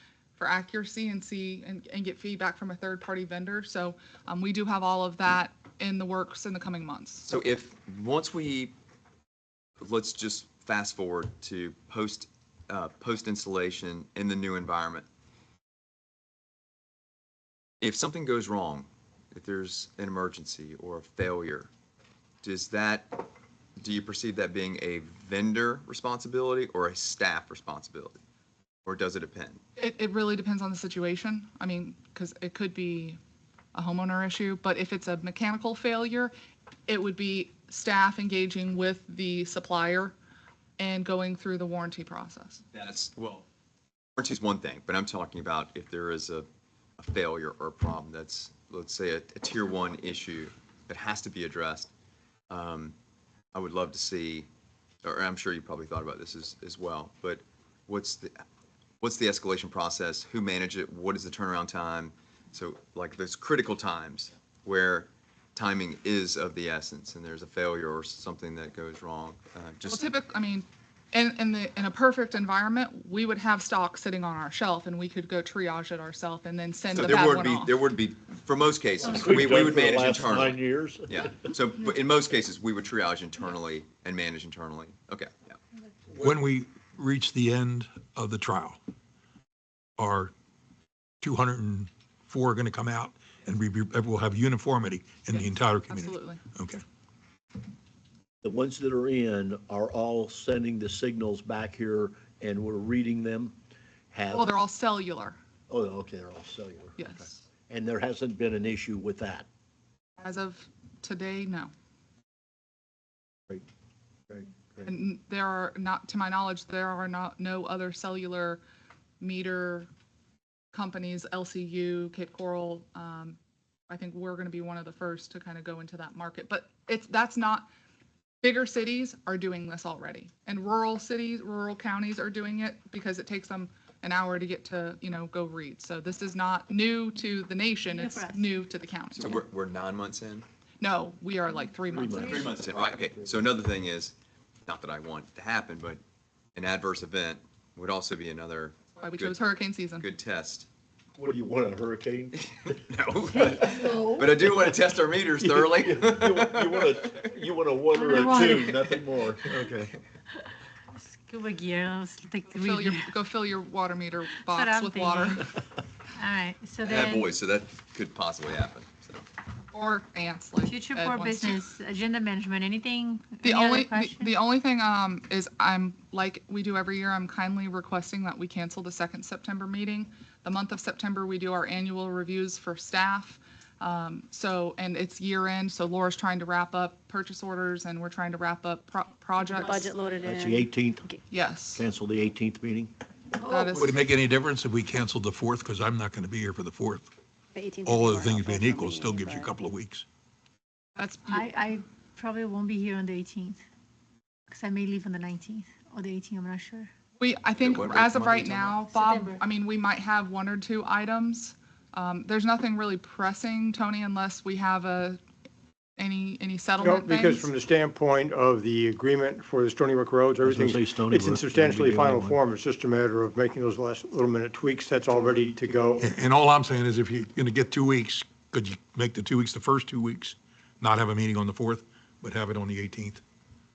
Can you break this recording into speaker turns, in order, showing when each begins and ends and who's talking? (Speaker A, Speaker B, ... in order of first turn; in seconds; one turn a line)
Speaker A: 0.3-7.3
Speaker B: 7.2-8.7
Speaker B: 9.8-15.1
Speaker B: 17.8-21.7
Speaker B: 22.4-28.2
Speaker B: 28.8-29.6
Speaker A: 29.8-33.2
Speaker A: 33.7-36.3
Speaker A: 36.9-40.1
Speaker A: 40.8-42.6
Speaker B: 42.7-43.4
Speaker B: 44.2-46.5
Speaker B: 47.0-51.9
Speaker B: 52.5-52.9
Speaker B: 53.5-54.5
Speaker B: 55.0-58.4
Speaker B: 59.0-70.1
Speaker A: 69.8-77.8
Speaker B: 76.9-85.6
Speaker C: 79.0-81.2
Speaker D: 86.2-88.8
Speaker D: 90.0-90.3
Speaker D: 91.2-96.8
Speaker A: 95.3-96.4
Speaker C: 98.4-103.5
Speaker C: 104.1-104.5
Speaker A: 104.3-105.4
Speaker C: 105.7-109.5
Speaker A: 107.0-107.4
Speaker A: 110.2-111.7
Speaker A: 114.8-118.6
Speaker A: 119.2-119.9
Speaker A: 120.7-123.4
Speaker A: 123.9-127.7
Speaker A: 128.4-139.4
Speaker E: 137.8-138.6
Speaker B: 139.2-140.4
Speaker A: 140.8-142.5
Speaker C: 141.9-143.4
Speaker B: 142.2-144.1
Speaker B: 144.7-146.0
Speaker B: 146.5-149.4
Speaker A: 149.0-150.1
Speaker B: 150.0-150.7
Speaker C: 151.2-152.4
Speaker B: 152.4-157.3
Speaker E: 153.3-154.2
Speaker C: 153.6-154.0
Speaker C: 155.4-159.8
Speaker E: 157.9-158.8
Speaker B: 158.9-159.9
Speaker E: 161.0-163.2
Speaker A: 162.5-165.5
Speaker E: 164.5-165.5
Speaker E: 166.1-167.3
Speaker B: 166.8-169.2
Speaker A: 169.7-171.6
Speaker E: 170.6-174.3
Speaker A: 173.4-189.9
Speaker F: 189.5-191.2
Speaker C: 190.2-191.1
Speaker A: 191.3-191.8
Speaker C: 191.7-192.9
Speaker A: 193.4-194.0
Speaker D: 193.8-197.1
Speaker F: 197.5-199.5
Speaker D: 197.8-200.0
Speaker A: 201.0-201.4
Speaker E: 201.2-203.6
Speaker E: 204.5-206.9
Speaker A: 207.2-215.2
Speaker B: 207.6-208.8
Speaker E: 208.9-209.4
Speaker A: 216.0-217.5
Speaker G: 216.8-226.0
Speaker C: 220.4-222.4
Speaker D: 226.0-233.2